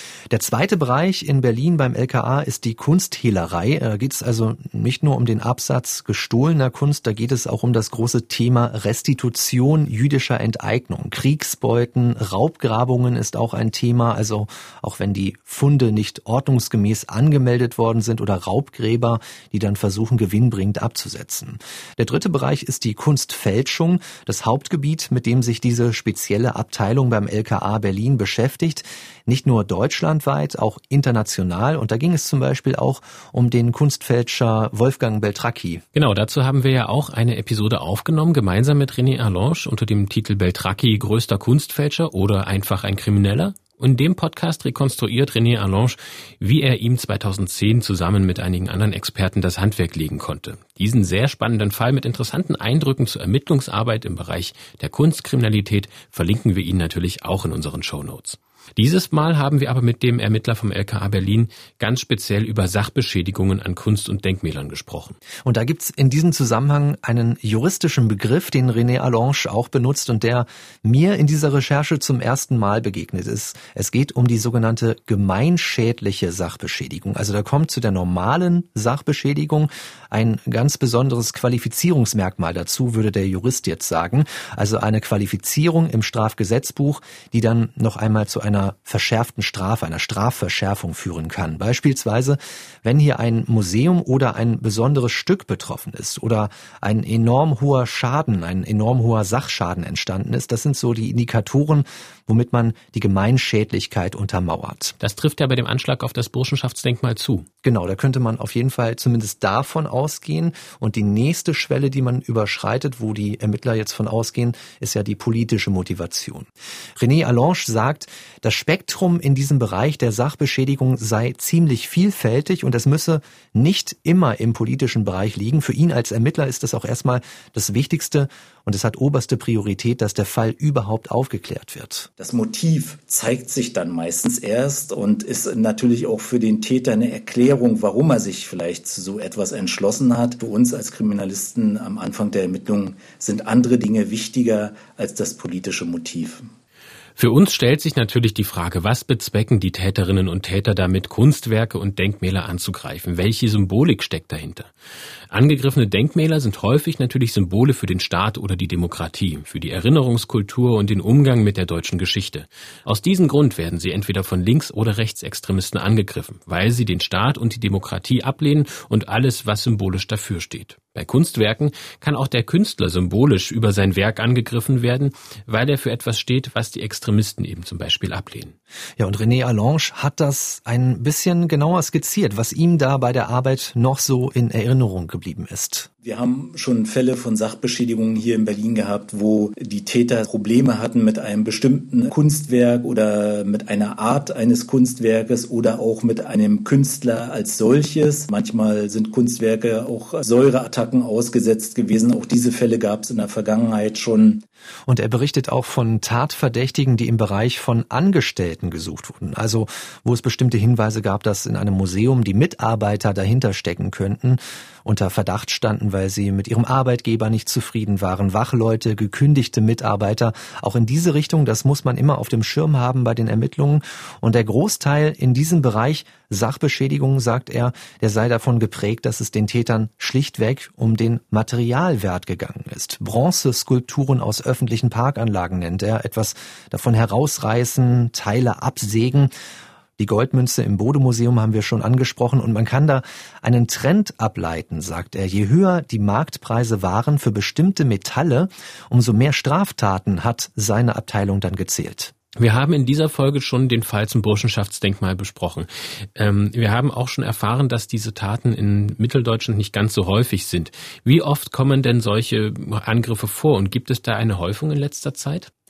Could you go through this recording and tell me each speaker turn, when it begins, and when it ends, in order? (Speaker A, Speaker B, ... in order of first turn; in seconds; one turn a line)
Speaker A: 0.3-35.8
Speaker B: 35.9-65.2
Speaker A: 65.4-105.0
Speaker B: 105.0-107.5
Speaker A: 107.6-132.1
Speaker C: 132.2-146.5
Speaker B: 147.2-154.7
Speaker B: 155.3-178.5
Speaker A: 179.0-185.9
Speaker C: 186.0-204.4
Speaker A: 204.9-239.3
Speaker A: 240.0-252.1
Speaker B: 252.3-265.5